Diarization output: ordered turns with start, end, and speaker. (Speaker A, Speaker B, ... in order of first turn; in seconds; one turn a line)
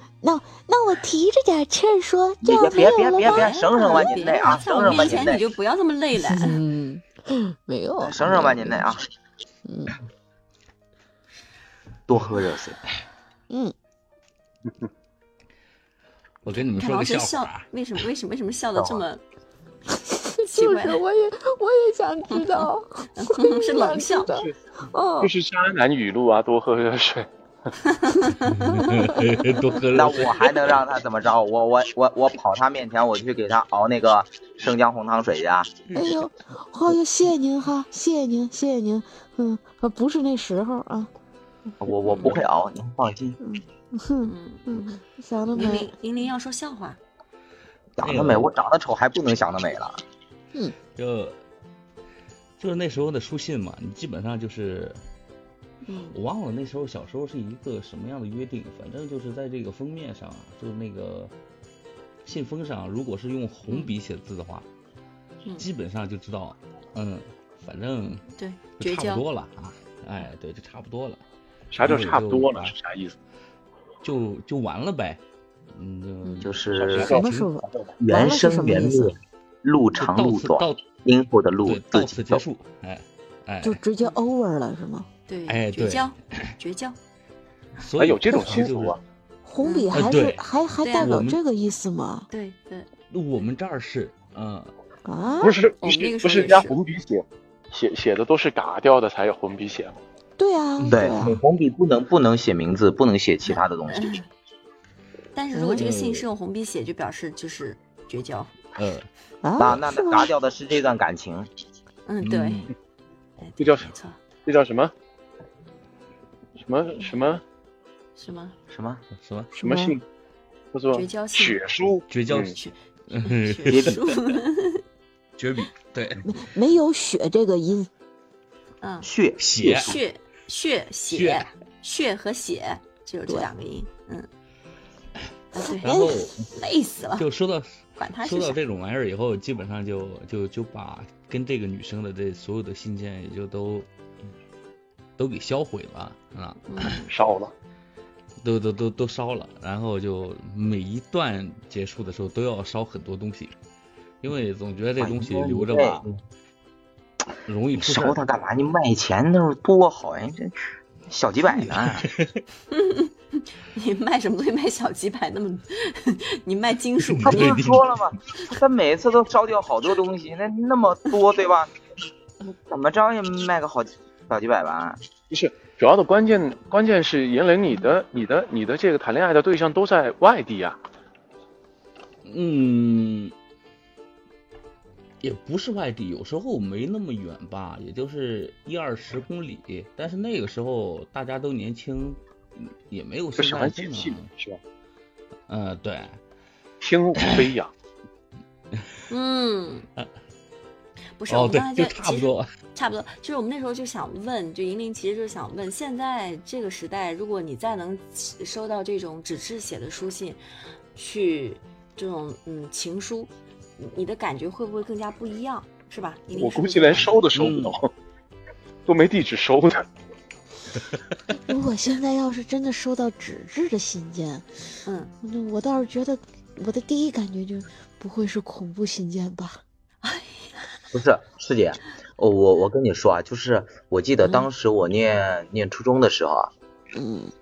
Speaker A: 0.2-4.1
Speaker B: 2.4-5.4
Speaker C: 3.2-6.6
Speaker A: 4.8-5.2
Speaker A: 6.2-8.9
Speaker B: 8.0-9.1
Speaker A: 9.6-9.9
Speaker B: 12.1-12.8
Speaker D: 16.4-17.6
Speaker C: 16.4-19.2
Speaker B: 18.8-19.0
Speaker A: 20.1-25.3
Speaker C: 20.4-21.0
Speaker C: 22.3-24.4
Speaker E: 25.2-27.3
Speaker C: 27.9-28.7
Speaker D: 28.5-30.7
Speaker B: 29.9-35.7
Speaker A: 35.9-41.1
Speaker B: 41.8-43.4
Speaker C: 42.1-42.4
Speaker A: 43.4-45.9
Speaker C: 44.2-44.9
Speaker C: 45.5-47.0
Speaker B: 48.0-50.0
Speaker D: 48.0-48.5
Speaker D: 51.0-51.4
Speaker D: 52.6-55.0
Speaker C: 55.8-56.2
Speaker D: 56.1-61.3
Speaker D: 62.2-64.6
Speaker C: 63.7-63.9
Speaker D: 65.6-68.3
Speaker C: 68.4-69.2
Speaker D: 68.8-71.2
Speaker E: 71.7-73.2
Speaker D: 71.8-72.7
Speaker D: 74.0-75.2
Speaker D: 75.7-77.5
Speaker C: 76.2-76.5
Speaker B: 76.4-77.2
Speaker E: 76.8-78.0
Speaker A: 77.1-79.2
Speaker B: 78.0-82.4
Speaker D: 80.0-80.8
Speaker D: 81.6-83.8
Speaker A: 83.6-85.1
Speaker C: 85.3-87.0
Speaker D: 85.5-86.5
Speaker D: 87.8-89.0
Speaker E: 88.0-89.0
Speaker A: 89.4-92.3
Speaker C: 89.6-90.1
Speaker D: 89.9-90.4
Speaker C: 90.8-91.2
Speaker D: 90.9-91.4
Speaker C: 92.3-92.9
Speaker D: 93.1-94.7
Speaker A: 95.0-95.6
Speaker E: 95.4-100.0
Speaker C: 95.8-96.7
Speaker A: 100.4-101.4
Speaker D: 100.8-101.2
Speaker B: 100.9-104.2
Speaker C: 103.9-104.3
Speaker C: 105.3-108.5
Speaker A: 105.5-105.8
Speaker D: 105.7-106.3
Speaker D: 108.7-109.1
Speaker A: 109.4-110.3
Speaker B: 109.6-111.5
Speaker C: 112.0-112.7
Speaker D: 112.2-112.7
Speaker C: 113.4-114.2
Speaker E: 113.6-113.9
Speaker E: 114.4-114.9
Speaker E: 116.6-117.4
Speaker C: 118.2-118.5
Speaker B: 118.7-119.0
Speaker D: 119.2-119.5
Speaker A: 119.5-120.0
Speaker E: 119.6-120.0
Speaker E: 120.7-122.5
Speaker C: 120.9-121.6
Speaker D: 122.1-124.0
Speaker C: 122.5-124.8
Speaker B: 123.7-124.0
Speaker D: 125.4-126.3
Speaker A: 126.2-127.9
Speaker C: 128.8-129.1
Speaker B: 129.0-129.4
Speaker D: 129.4-130.0
Speaker E: 129.6-130.0
Speaker C: 129.8-134.3
Speaker D: 131.1-131.4
Speaker C: 135.5-137.2
Speaker A: 135.6-136.3
Speaker D: 135.8-136.4
Speaker D: 137.2-143.9
Speaker C: 138.0-138.6
Speaker D: 145.2-146.8
Speaker C: 146.7-147.1
Speaker E: 147.1-147.5
Speaker D: 148.4-153.5
Speaker D: 154.2-156.0
Speaker B: 155.0-156.2
Speaker D: 157.4-158.2
Speaker B: 157.7-162.1
Speaker D: 161.6-162.4
Speaker C: 162.7-167.6
Speaker D: 167.1-168.0
Speaker B: 167.2-171.7
Speaker B: 172.5-175.0
Speaker E: 175.3-180.8
Speaker D: 182.2-183.3
Speaker D: 185.2-194.3
Speaker E: 193.4-194.6
Speaker D: 195.5-196.2
Speaker E: 196.8-197.7
Speaker D: 197.2-197.5
Speaker C: 199.1-199.9
Speaker C: 201.2-210.4
Speaker D: 201.3-202.5
Speaker C: 210.9-217.1
Speaker E: 216.3-217.9
Speaker D: 217.3-217.8
Speaker E: 218.8-219.8
Speaker A: 221.4-224.5
Speaker C: 224.8-225.1
Speaker A: 225.2-229.6
Speaker C: 230.0-230.5
Speaker B: 230.9-236.5
Speaker A: 236.9-237.3